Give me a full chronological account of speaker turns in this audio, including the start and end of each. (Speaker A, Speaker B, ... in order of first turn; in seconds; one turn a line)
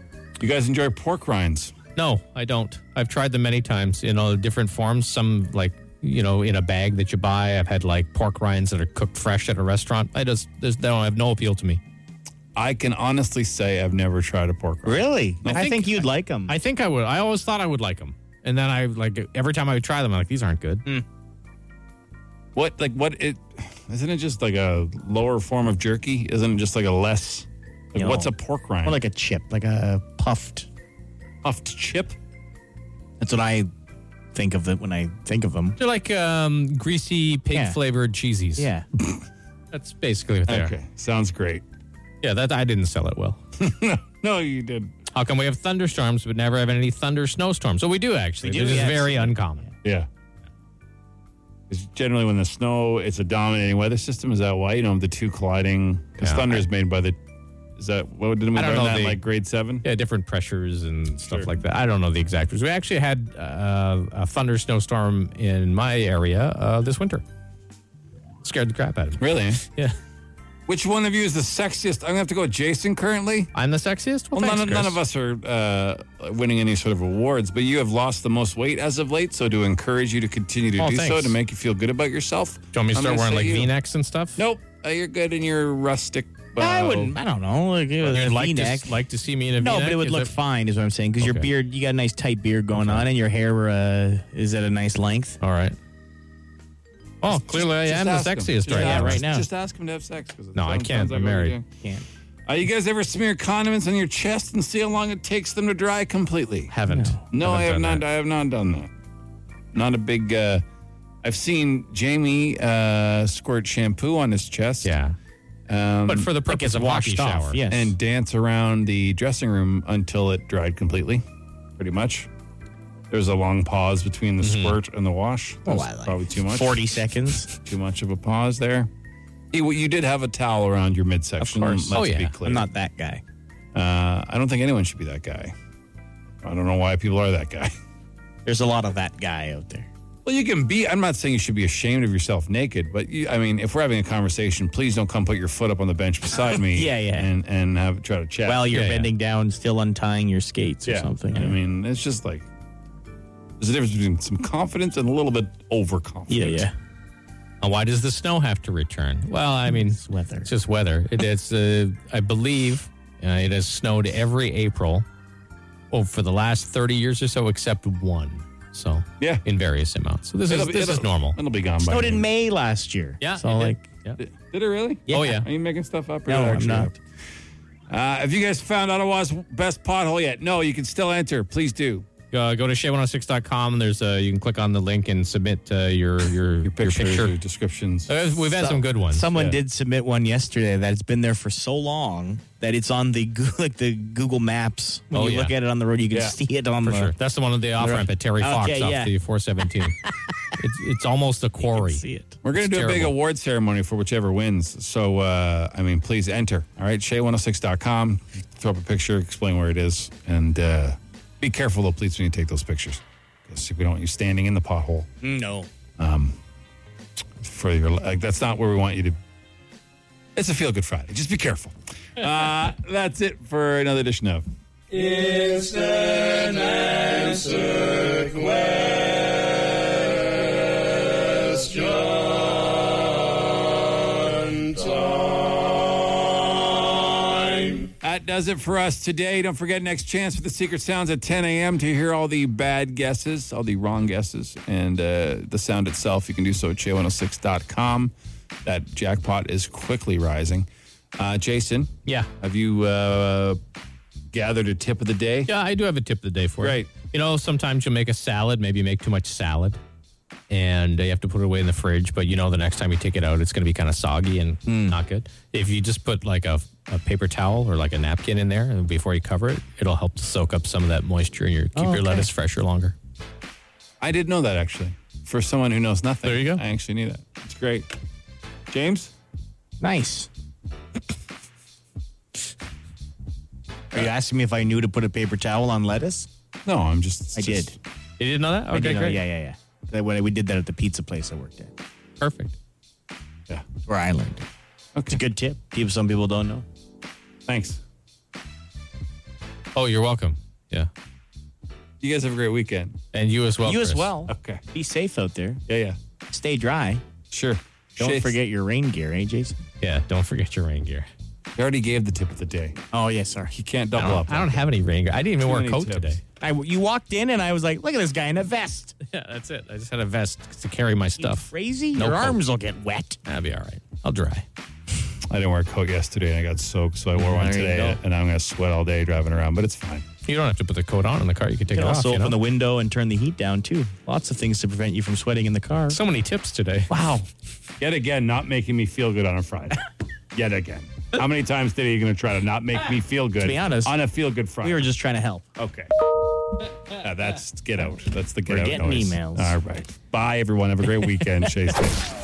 Speaker A: 0.4-1.8
Speaker B: 2.0-11.8
Speaker A: 12.6-16.0
Speaker C: 14.8-16.6
Speaker B: 16.5-20.9
Speaker A: 22.6-29.0
Speaker C: 27.9-28.3
Speaker C: 28.8-30.7
Speaker A: 31.4-32.2
Speaker C: 33.2-33.7
Speaker C: 34.3-35.8
Speaker B: 35.8-38.7
Speaker C: 37.5-37.8
Speaker C: 38.6-38.9
Speaker B: 39.7-40.7
Speaker A: 40.5-41.6
Speaker B: 42.2-43.4
Speaker A: 43.6-44.9
Speaker B: 45.1-49.7
Speaker C: 48.4-49.7
Speaker A: 51.7-57.2
Speaker B: 56.2-56.6
Speaker A: 57.8-59.9
Speaker B: 58.5-59.2
Speaker B: 59.8-67.2
Speaker B: 68.4-70.0
Speaker A: 69.2-69.6
Speaker A: 70.7-73.5
Speaker B: 73.5-75.0
Speaker A: 74.3-83.7
Speaker B: 80.8-81.4
Speaker B: 82.7-84.4
Speaker A: 84.4-87.2
Speaker C: 86.6-89.0
Speaker B: 88.0-90.3
Speaker C: 89.6-95.4
Speaker B: 91.2-91.5
Speaker B: 92.8-93.0
Speaker B: 95.4-95.8
Speaker B: 97.2-99.2
Speaker A: 97.3-101.7
Speaker C: 98.7-99.5
Speaker B: 100.5-101.6
Speaker A: 102.5-106.7
Speaker B: 106.7-108.0
Speaker C: 106.9-107.2
Speaker A: 107.3-108.9
Speaker A: 109.7-110.6
Speaker A: 111.2-114.9
Speaker B: 114.8-115.2
Speaker A: 115.7-116.3
Speaker B: 116.1-117.6
Speaker C: 116.5-118.0
Speaker A: 117.7-121.2
Speaker A: 121.8-122.3
Speaker A: 123.1-127.0
Speaker B: 124.4-124.8
Speaker C: 125.7-127.5
Speaker A: 127.5-128.9
Speaker A: 129.5-132.7
Speaker C: 131.4-133.2
Speaker B: 131.9-132.3
Speaker A: 133.7-135.5
Speaker A: 136.4-137.7
Speaker C: 138.4-139.9
Speaker A: 140.2-148.8
Speaker C: 146.7-147.3
Speaker C: 148.4-151.6
Speaker B: 148.7-149.1
Speaker A: 150.8-152.4
Speaker A: 153.6-156.7
Speaker C: 156.3-156.8
Speaker B: 157.6-165.1
Speaker C: 159.7-160.5
Speaker B: 165.9-171.4
Speaker A: 170.5-172.3
Speaker C: 171.8-173.8
Speaker B: 173.2-174.2
Speaker A: 174.2-177.0
Speaker C: 175.1-175.4
Speaker B: 175.1-175.5
Speaker C: 176.3-176.9
Speaker A: 177.9-182.1
Speaker B: 182.3-187.3
Speaker A: 186.6-188.1
Speaker B: 188.1-189.3
Speaker C: 188.6-197.2
Speaker B: 195.1-195.6
Speaker A: 196.1-196.4
Speaker B: 196.8-200.0
Speaker C: 197.8-199.1
Speaker B: 200.6-202.0
Speaker C: 201.6-202.4
Speaker A: 202.4-215.1
Speaker B: 202.5-203.2
Speaker C: 215.2-215.7
Speaker A: 216.0-216.4
Speaker A: 217.4-219.2
Speaker A: 220.4-224.5
Speaker A: 225.5-227.6
Speaker A: 238.0-248.1
Speaker A: 248.7-253.6
Speaker A: 254.3-255.5
Speaker B: 255.5-259.8
Speaker A: 256.6-256.9
Speaker B: 260.5-273.0
Speaker C: 264.7-265.0
Speaker C: 271.8-272.3
Speaker A: 274.0-277.9
Speaker B: 276.2-276.6
Speaker A: 278.7-279.1
Speaker C: 279.8-280.3
Speaker C: 283.9-286.3
Speaker A: 286.7-287.8
Speaker C: 287.4-287.8
Speaker B: 288.2-289.2
Speaker C: 288.7-291.8
Speaker B: 292.2-292.6
Speaker C: 293.9-294.4
Speaker C: 295.1-296.7
Speaker A: 297.5-297.8
Speaker B: 299.8-300.9
Speaker A: 302.0-303.0
Speaker B: 303.1-304.1
Speaker C: 303.6-305.6
Speaker A: 304.3-304.6
Speaker A: 305.7-306.0
Speaker C: 306.3-307.0
Speaker A: 307.3-308.4
Speaker C: 308.0-309.6
Speaker B: 309.8-311.1
Speaker A: 311.6-312.8
Speaker C: 312.9-313.6
Speaker A: 313.6-314.7
Speaker B: 314.0-316.2
Speaker A: 315.4-316.2
Speaker C: 316.4-318.9
Speaker B: 319.0-322.4
Speaker C: 321.2-323.2
Speaker B: 323.3-324.4
Speaker A: 325.3-330.1
Speaker C: 327.1-328.0
Speaker B: 330.2-332.4
Speaker C: 331.7-336.0
Speaker B: 335.9-336.9
Speaker C: 336.9-337.3
Speaker A: 337.8-339.8
Speaker A: 340.3-344.9
Speaker C: 343.4-344.0
Speaker C: 344.6-345.5
Speaker A: 345.6-345.9
Speaker A: 347.0-352.0
Speaker C: 348.5-349.6